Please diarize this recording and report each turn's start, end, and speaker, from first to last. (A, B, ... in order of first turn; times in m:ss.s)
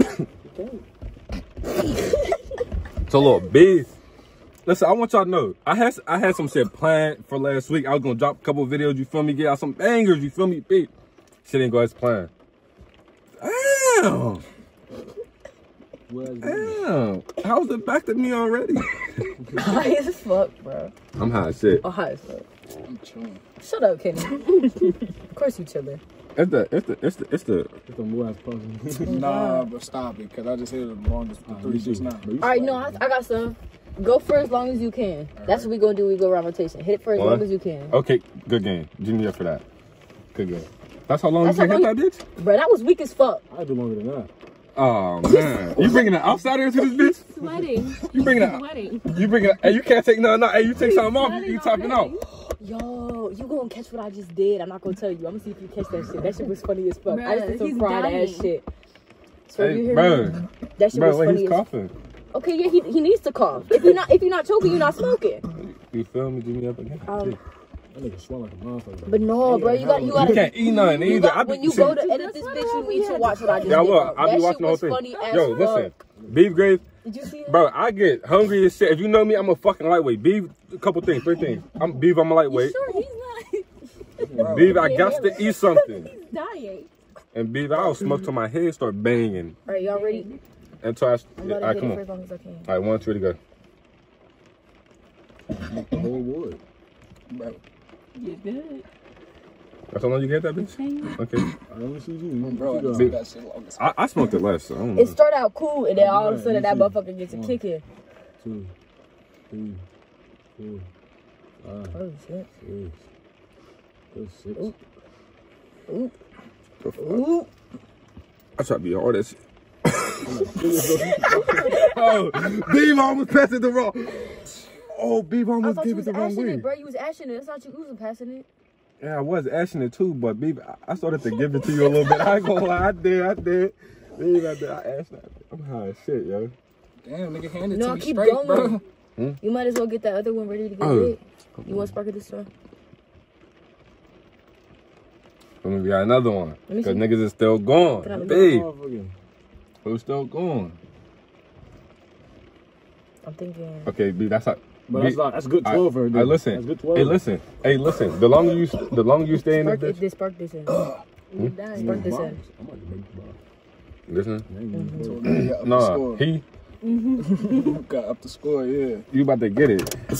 0:00.5-0:00.8 A
0:03.1-0:03.9 B
0:04.6-0:10.9 B
0:11.4-0:12.3 B
0:13.4-0:14.4 B
0:16.1-0:16.8 A
0:16.4-0:18.9 B
0:19.5-0:20.9 C
0:21.2-0:21.8 B
0:21.8-0:22.4 C
0:22.8-0:23.4 D
0:23.6-0:26.0 C
0:26.3-0:27.7 B
0:27.9-0:29.2 A
0:29.0-0:29.7 C
0:29.0-0:32.3 D
0:31.5-0:33.0 A
0:32.4-0:38.0 C
0:35.4-0:35.7 D
0:37.1-0:39.6 B
0:40.3-0:42.2 B
0:41.4-0:43.4 C
0:43.5-0:44.3 A
0:44.8-0:47.2 B
0:45.2-0:46.2 C
0:47.2-0:49.3 E
0:48.0-0:52.2 B
0:50.6-0:52.2 E
0:52.2-0:58.6 C
0:57.1-0:58.5 E
0:59.5-1:01.6 C
0:59.6-1:01.9 B
1:02.3-1:05.4 C
1:05.5-1:07.4 B
1:07.0-1:07.4 C
1:07.9-1:10.5 A
1:09.0-1:16.0 C
1:10.1-1:12.0 B
1:10.6-1:14.2 E
1:13.6-1:16.8 B
1:15.1-1:15.8 E
1:16.2-1:16.8 A
1:17.0-1:17.6 C
1:17.4-1:22.8 B
1:22.5-1:26.9 E
1:24.2-1:24.9 A
1:24.4-1:25.1 D
1:24.4-1:26.1 B
1:27.3-1:29.6 B
1:29.7-1:30.3 C
1:29.7-1:30.4 E
1:30.8-1:32.0 B
1:31.4-1:32.7 C
1:32.7-1:33.4 B
1:35.7-1:36.6 A
1:37.3-1:37.6 D
1:38.1-1:38.8 E
1:39.9-1:41.4 B
1:40.6-1:41.2 E
1:41.7-1:43.2 A
1:42.4-1:43.8 D
1:43.8-1:45.1 B
1:44.9-1:47.8 C
1:45.9-1:47.6 A
1:48.4-1:48.7 A
1:49.5-1:49.8 A
1:50.6-1:50.8 A
1:51.6-1:52.0 A
1:51.9-1:52.5 C
1:52.6-1:53.0 A
1:54.1-1:54.7 A
1:55.9-1:56.1 C
1:56.8-1:57.3 B
1:57.0-1:57.5 C
1:58.6-2:00.5 B
2:00.2-2:01.8 A
2:01.3-2:02.3 C
2:01.6-2:04.4 B
2:04.9-2:06.7 B
2:05.6-2:08.4 C
2:09.0-2:16.5 B
2:17.0-2:18.8 D
2:17.7-2:18.8 C
2:19.4-2:22.5 C
2:20.8-2:21.9 B
2:25.6-2:28.7 B
2:26.7-2:27.1 C
2:28.0-2:28.5 C
2:28.1-2:29.1 A
2:29.8-2:30.8 B
2:33.2-2:33.9 C
2:33.8-2:40.0 B
2:34.9-2:37.2 A
2:39.4-2:40.9 C
2:40.7-2:41.0 D
2:41.3-2:42.1 E
2:41.7-2:43.4 A
2:41.8-2:42.4 C
2:44.1-2:44.4 B
2:44.4-2:45.5 A
2:44.7-2:45.2 C
2:45.0-2:46.3 D
2:45.3-2:46.4 B
2:46.8-2:47.8 E
2:47.3-2:49.0 D
2:49.1-2:49.9 B